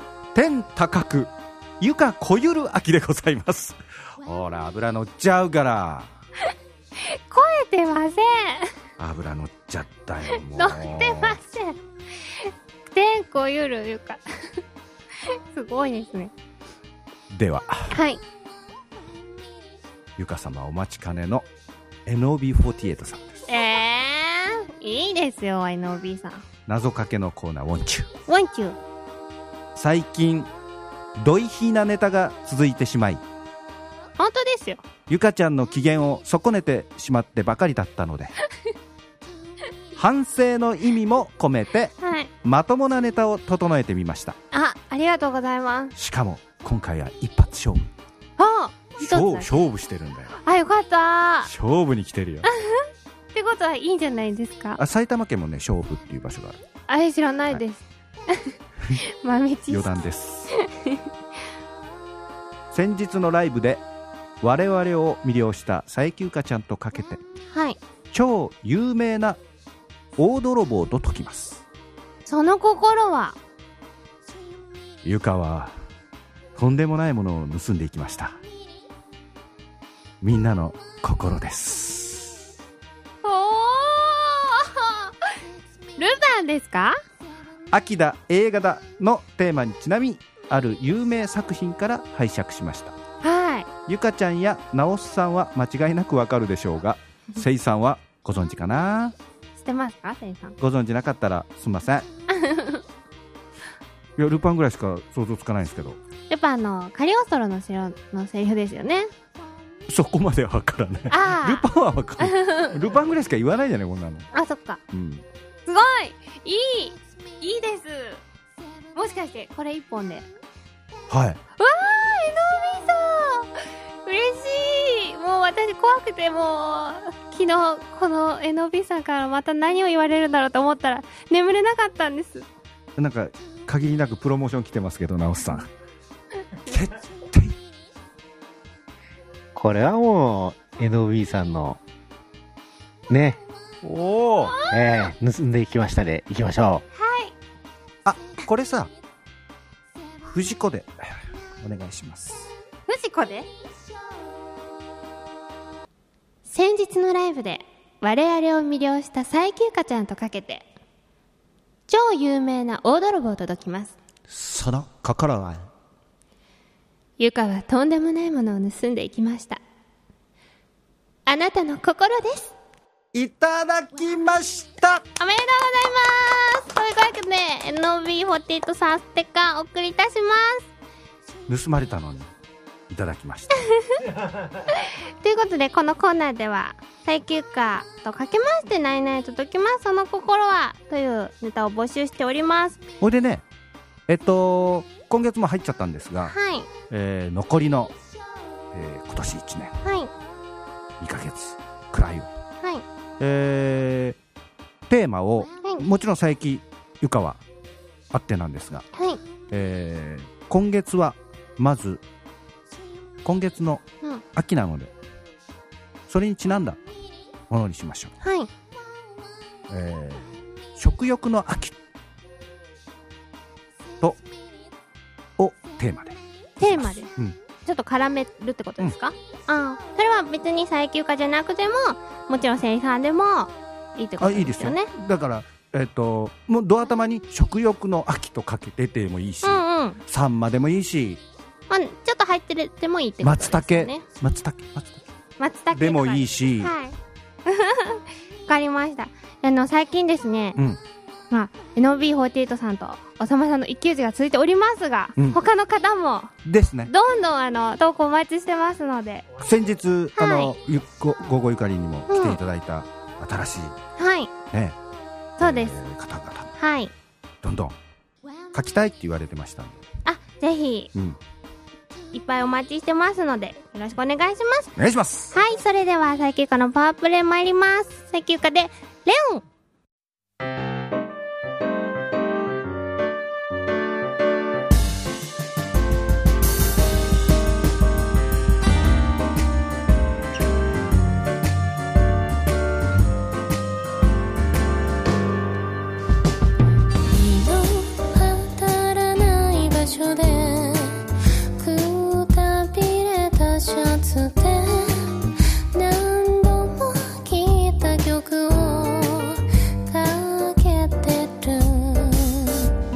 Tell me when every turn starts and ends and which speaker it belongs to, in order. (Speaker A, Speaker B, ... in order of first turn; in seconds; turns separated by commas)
Speaker A: 0.3-6.1, Speaker B: 7.0-8.7, Speaker A: 9.0-11.4, Speaker B: 10.5-11.8, Speaker B: 12.4-14.2, Speaker B: 15.3-16.3, Speaker A: 17.3-17.9, Speaker B: 17.9-18.2, Speaker A: 20.2-21.4, Speaker A: 22.1-23.4, Speaker B: 23.5-26.4, Speaker A: 26.7-28.1, Speaker B: 28.3-28.8, Speaker A: 29.8-30.5, Speaker A: 31.1-33.2, Speaker B: 34.2-34.8, Speaker A: 35.1-38.3, Speaker A: 39.9-44.4, Speaker B: 42.0-42.3, Speaker B: 44.5-45.9, Speaker A: 46.0-47.9, Speaker B: 48.4-49.5, Speaker A: 49.0-50.4, Speaker B: 50.4-51.5, Speaker A: 51.5-52.5, Speaker B: 52.5-52.8, Speaker B: 53.3-54.8, Speaker A: 54.8-56.6, Speaker B: 56.9-60.0, Speaker A: 59.7-60.5, Speaker B: 60.5-61.0, Speaker A: 62.7-63.8, Speaker A: 64.4-67.2, Speaker B: 67.5-67.8, Speaker A: 68.1-69.4, Speaker A: 70.2-71.6, Speaker B: 72.2-73.4, Speaker A: 75.0-75.8, Speaker A: 76.5-78.4, Speaker A: 80.2-82.4, Speaker B: 83.2-85.1, Speaker B: 86.0-87.0, Speaker A: 87.7-92.9, Speaker B: 93.2-93.7, Speaker A: 93.9-99.1, Speaker B: 99.6-100.5, Speaker A: 100.6-102.1, Speaker B: 102.3-102.8, Speaker A: 104.2-106.0, Speaker B: 106.3-109.1, Speaker A: 109.9-114.3, Speaker B: 111.1-111.7, Speaker B: 112.2-112.7, Speaker B: 114.3-114.8, Speaker A: 114.9-115.2, Speaker B: 115.7-118.2, Speaker B: 118.9-120.2, Speaker A: 121.1-121.4, Speaker B: 121.6-123.5, Speaker B: 124.0-132.5, Speaker A: 132.9-135.7, Speaker A: 136.7-137.6, Speaker C: 139.5-141.8, Speaker C: 143.1-143.4, Speaker A: 143.8-144.6, Speaker B: 144.4-144.7, Speaker C: 144.7-146.8, Speaker B: 146.9-147.3, Speaker A: 148.0-148.9, Speaker A: 150.2-151.0, Speaker A: 151.6-152.5, Speaker B: 152.9-153.5, Speaker B: 156.5-160.7, Speaker B: 161.9-163.9, Speaker A: 164.3-165.7, Speaker B: 167.2-169.6, Speaker B: 171.2-172.5, Speaker A: 173.1-175.0, Speaker B: 175.2-180.7, Speaker A: 181.5-182.3, Speaker A: 182.9-183.7, Speaker B: 184.7-192.8, Speaker A: 193.0-193.4, Speaker A: 194.1-196.3, Speaker B: 196.2-196.7, Speaker A: 196.9-197.9, Speaker A: 198.7-199.8, Speaker B: 199.8-200.1, Speaker A: 201.0-202.3, Speaker A: 203.2-204.2, Speaker A: 204.9-207.4, Speaker A: 208.1-208.8, Speaker A: 209.5-212.0, Speaker A: 213.2-214.9, Speaker A: 216.1-216.8, Speaker A: 217.5-218.1, Speaker B: 218.2-218.5, Speaker A: 219.7-221.7, Speaker A: 225.4-227.3, Speaker B: 226.6-227.1, Speaker B: 227.6-234.9, Speaker A: 234.2-241.2, Speaker B: 239.4-240.0, Speaker B: 241.7-244.0, Speaker A: 243.2-245.0, Speaker B: 245.4-246.9, Speaker A: 245.7-246.7, Speaker B: 247.5-250.6, Speaker B: 251.3-256.3, Speaker A: 255.2-255.4, Speaker A: 256.4-256.9, Speaker B: 256.9-259.3, Speaker A: 259.4-263.8, Speaker B: 260.1-260.5, Speaker B: 262.1-262.4, Speaker B: 264.0-264.3, Speaker A: 264.5-264.8, Speaker B: 265.4-265.8, Speaker A: 265.4-266.5, Speaker B: 266.6-266.9, Speaker A: 267.4-267.7, Speaker A: 268.5-269.8, Speaker B: 270.0-270.9, Speaker B: 272.1-274.7, Speaker A: 274.8-275.3, Speaker B: 275.3-279.4, Speaker D: 297.0-301.0, Speaker D: 301.6-312.7